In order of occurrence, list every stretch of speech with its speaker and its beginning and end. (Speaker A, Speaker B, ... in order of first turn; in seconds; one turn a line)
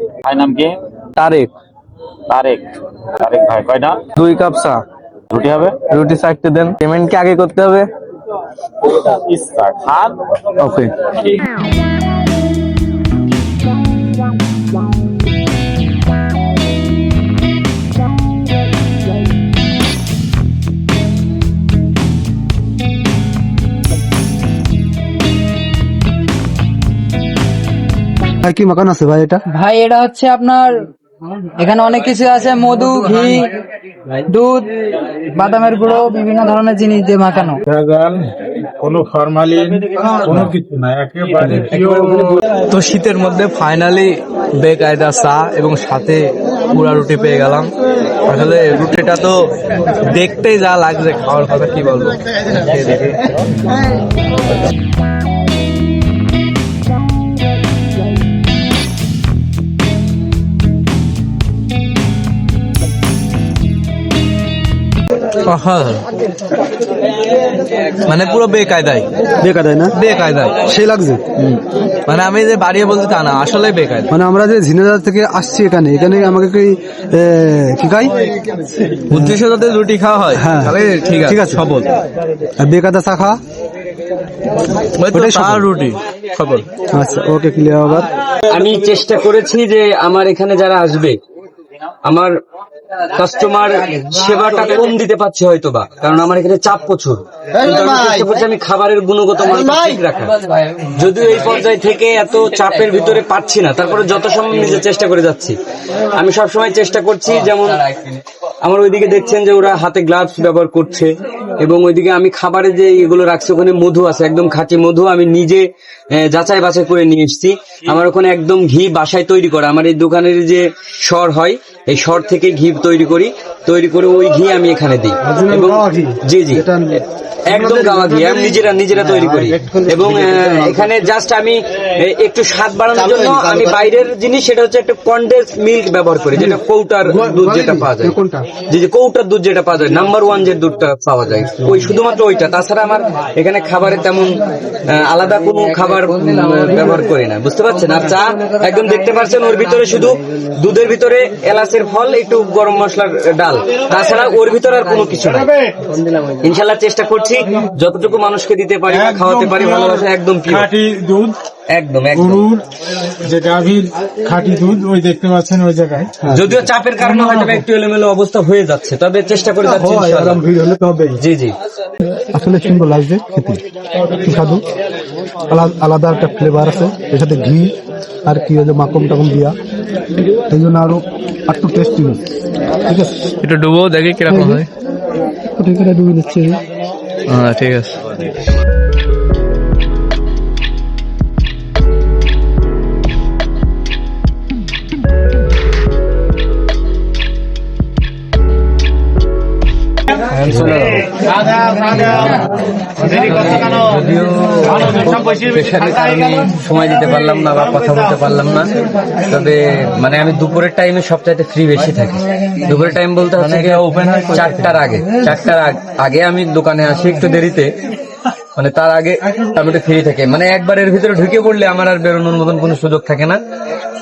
Speaker A: 0.2-0.7
Speaker B: 1.1-1.5
Speaker A: 2.3-2.6
Speaker A: 3.2-4.0
Speaker B: 4.2-4.8
Speaker A: 5.3-5.7
Speaker B: 5.9-7.8
Speaker A: 8.9-10.1
Speaker B: 10.6-10.9
Speaker C: 28.4-29.4
Speaker D: 29.5-30.9
Speaker D: 31.6-33.5
Speaker D: 34.2-34.7
Speaker D: 35.3-37.6
Speaker E: 37.7-38.2
Speaker E: 38.8-42.4
Speaker B: 41.7-47.7
Speaker B: 48.3-49.3
Speaker B: 50.0-53.2
Speaker B: 65.4-66.0
Speaker B: 68.1-69.0
Speaker C: 69.4-69.9
Speaker B: 70.0-70.6
Speaker C: 70.6-71.2
Speaker B: 72.1-74.1
Speaker C: 74.1-78.1
Speaker C: 79.1-79.4
Speaker B: 79.1-81.9
Speaker C: 80.3-81.6
Speaker C: 82.6-83.4
Speaker B: 85.0-86.6
Speaker C: 85.1-85.6
Speaker C: 86.9-88.1
Speaker F: 88.5-91.2
Speaker F: 92.0-92.3
Speaker F: 93.2-105.5
Speaker F: 106.2-115.6
Speaker F: 116.2-126.6
Speaker C: 125.2-128.6
Speaker F: 127.5-138.2
Speaker C: 129.2-130.6
Speaker C: 133.2-133.7
Speaker C: 137.0-138.5
Speaker F: 138.7-144.3
Speaker F: 144.9-155.5
Speaker F: 156.2-160.7
Speaker E: 158.9-161.3
Speaker F: 161.7-162.5
Speaker E: 162.1-162.6
Speaker E: 163.2-166.1
Speaker C: 166.2-166.6
Speaker F: 166.3-170.4
Speaker E: 167.0-167.6
Speaker C: 169.6-171.2
Speaker F: 171.2-171.5
Speaker C: 172.2-173.6
Speaker C: 174.2-174.6
Speaker C: 175.5-177.7
Speaker C: 178.2-179.5
Speaker C: 180.5-182.2
Speaker C: 182.8-183.1
Speaker B: 183.4-184.7
Speaker C: 184.3-184.6
Speaker C: 185.6-186.6
Speaker B: 187.3-188.0
Speaker B: 200.3-201.0
Speaker F: 200.5-201.0
Speaker F: 201.7-202.4
Speaker F: 203.0-208.7
Speaker F: 209.3-217.7
Speaker B: 213.4-214.7
Speaker F: 218.6-223.4